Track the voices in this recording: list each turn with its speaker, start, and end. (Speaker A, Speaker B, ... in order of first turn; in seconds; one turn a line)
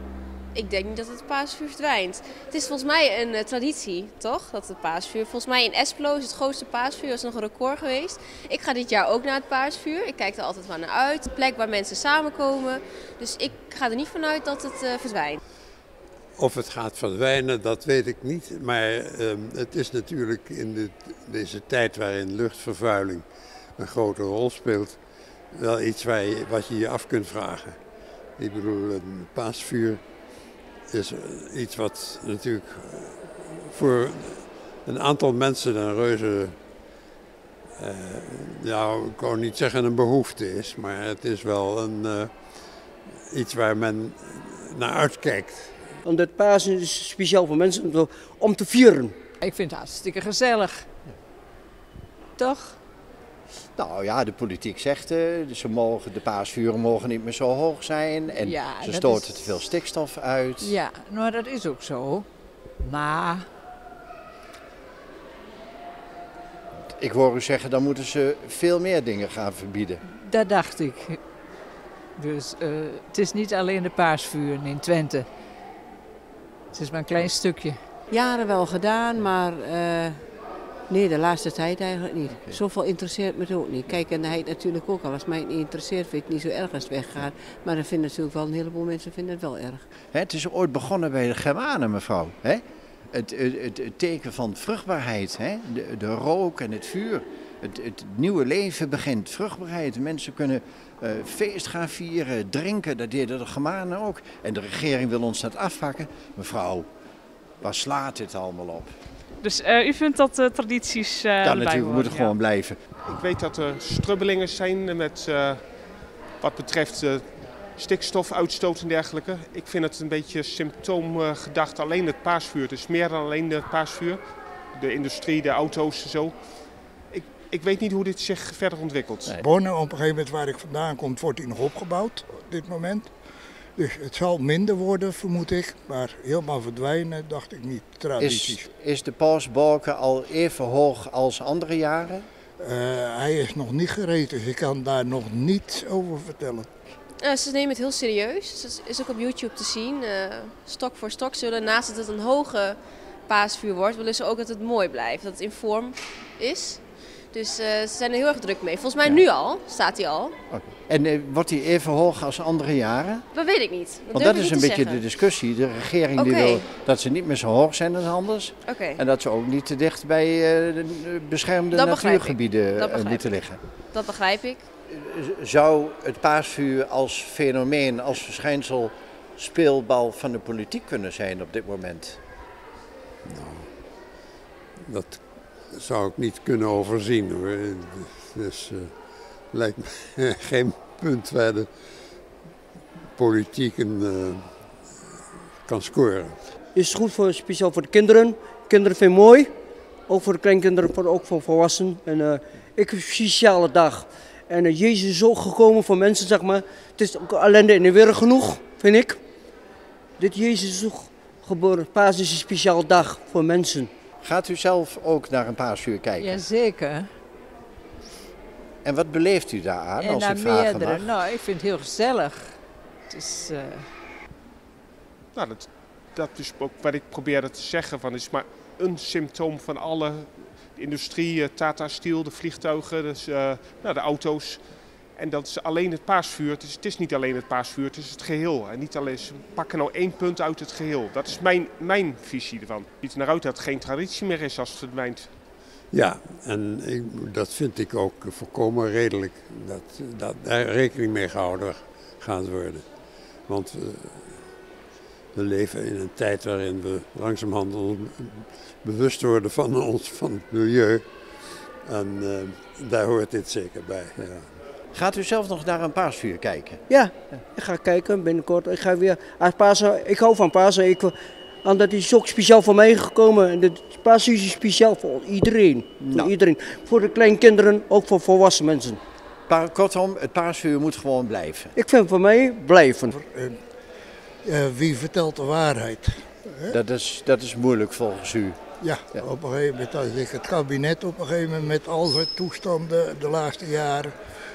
Speaker A: 0.5-15.4
Speaker B: 16.4-27.8
Speaker B: 28.3-30.1
Speaker B: 30.9-36.6
Speaker B: 37.8-45.8
Speaker C: 46.0-49.2
Speaker D: 49.4-50.9
Speaker D: 52.4-52.8
Speaker E: 53.8-60.8
Speaker D: 58.3-59.5
Speaker D: 60.6-62.3
Speaker D: 62.8-63.5
Speaker E: 67.0-70.0
Speaker D: 70.1-71.2
Speaker D: 72.2-75.3
Speaker D: 76.7-77.8
Speaker F: 78.1-80.3
Speaker F: 80.9-89.9
Speaker E: 82.3-82.6
Speaker E: 90.1-106.9
Speaker E: 107.6-108.9
Speaker G: 109.4-112.3
Speaker E: 111.4-112.8
Speaker H: 113.0-115.8
Speaker H: 116.4-124.2
Speaker H: 124.7-126.3
Speaker H: 127.1-129.3
Speaker I: 129.4-133.1
Speaker I: 133.8-138.7
Speaker E: 138.2-142.3
Speaker I: 142.6-146.7
Speaker A: 147.2-160.4
Speaker E: 160.5-163.3
Speaker A: 163.3-165.0
Speaker E: 164.1-173.6
Speaker A: 166.2-166.7
Speaker A: 168.7-169.0
Speaker A: 171.7-173.3
Speaker A: 173.9-174.7
Speaker E: 174.9-182.2
Speaker B: 183.2-183.8
Speaker B: 184.8-191.8
Speaker B: 193.2-195.0
Speaker B: 195.6-196.4
Speaker C: 196.7-199.5
Speaker C: 200.1-209.2
Speaker C: 210.2-213.9
Speaker E: 214.2-216.4
Speaker D: 216.2-217.1
Speaker E: 218.8-221.1
Speaker D: 220.0-223.9
Speaker H: 225.3-245.3
Speaker B: 245.9-254.6
Speaker B: 255.3-264.5
Speaker E: 264.9-266.8
Speaker C: 266.9-279.0
Speaker E: 276.0-276.3
Speaker E: 279.5-281.7
Speaker C: 281.8-283.1
Speaker I: 283.2-283.6
Speaker I: 284.4-286.8
Speaker E: 286.7-288.6
Speaker I: 288.8-294.1